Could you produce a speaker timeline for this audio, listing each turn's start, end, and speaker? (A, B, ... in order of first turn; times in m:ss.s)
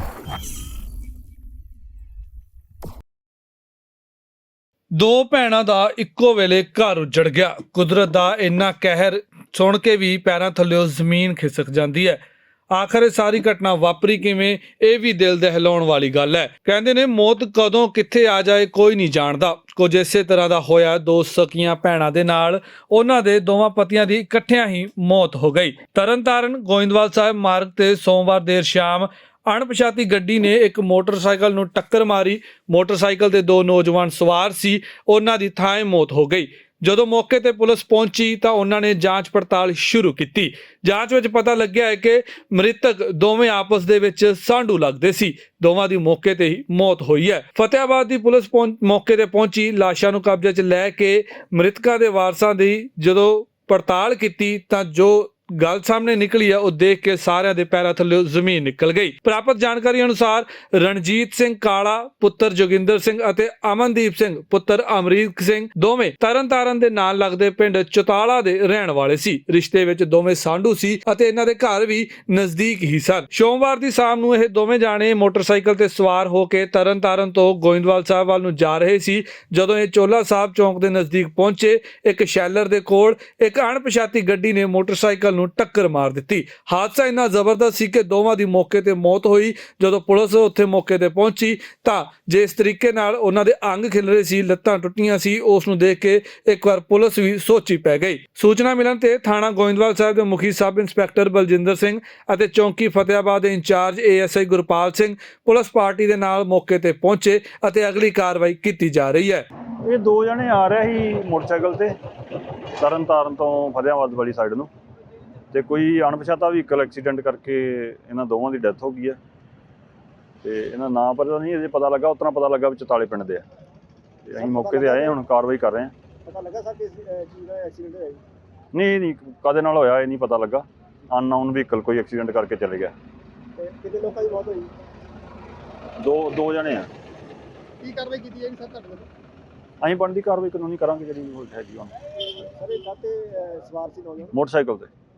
0:04.9-0:12.2 A
0:12.7-1:49.5 A
1:49.8-1:51.9 B
1:52.8-1:54.7 B
1:55.5-1:59.2 B
2:00.4-2:03.4 B
2:04.3-2:05.9 B
2:04.4-2:05.2 C
2:06.2-2:08.2 C
2:08.7-2:12.9 B
2:13.6-2:14.7 C
2:16.0-2:16.9 B
2:17.8-2:19.0 C
2:19.8-2:21.9 B
2:22.6-2:24.3 C
2:24.3-2:24.9 B